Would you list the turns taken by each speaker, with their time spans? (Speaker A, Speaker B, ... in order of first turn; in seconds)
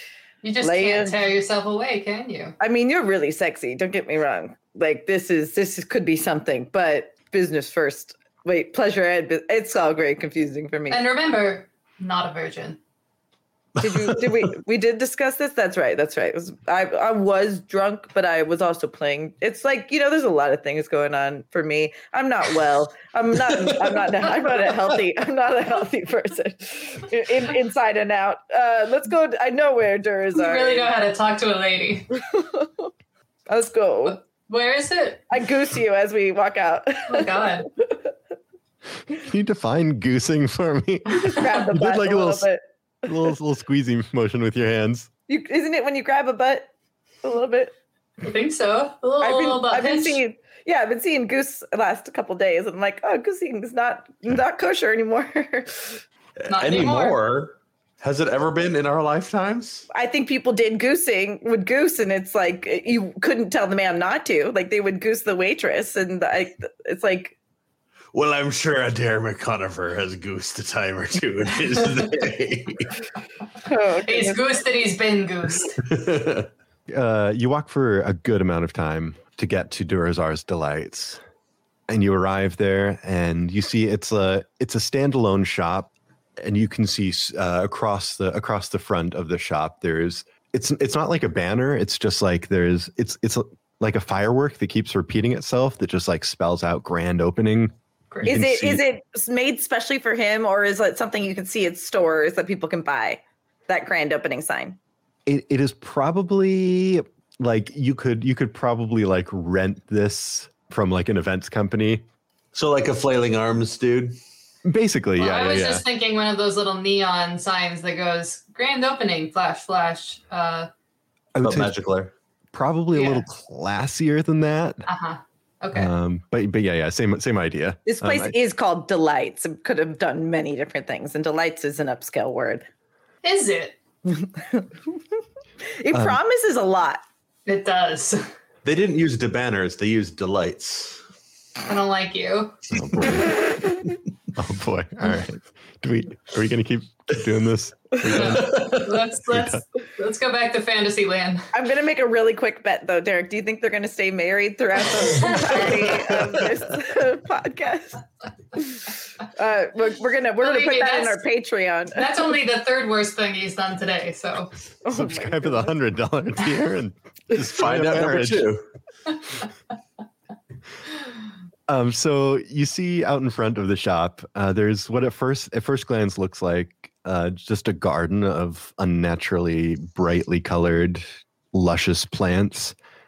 Speaker A: 0.4-2.5, 10.9-12.8, 30.4-32.1, 34.5-35.3, 37.1-37.7, 48.2-50.2, 56.5-57.2, 74.0-75.8, 98.1-98.4, 115.2-120.7, 122.9-123.2, 124.9-125.9, 133.2-133.8, 137.5-138.3, 141.7-142.7, 148.1-151.5, 155.3-155.9, 160.4-161.2, 161.9-164.5
Speaker B: 0.6-1.2, 2.6-11.0, 13.8-30.9, 32.3-32.9, 33.5-34.2, 35.3-38.1, 41.1-42.6, 45.3-46.7, 47.2-47.8, 49.2-56.0, 59.9-67.4, 73.7-74.5, 98.3-104.8, 127.9-132.7, 134.1-135.0, 135.6-137.0, 151.5-158.0, 158.6-162.2, 164.8-165.7
Speaker C: 13.8-14.2, 56.4-59.9, 68.1-73.0, 75.8-76.5, 112.5-114.2, 121.4-122.1, 138.6-141.0, 148.0-149.0, 167.3-168.6
Speaker D: 39.1-42.5, 43.0-45.1, 76.9-81.2, 81.9-98.8, 105.3-112.0, 114.7-115.8, 121.3-121.7, 122.5-124.9, 125.7-128.3, 135.9-136.2, 142.7-143.5, 144.3-148.8, 149.3-149.6, 164.9-168.5, 171.7-182.8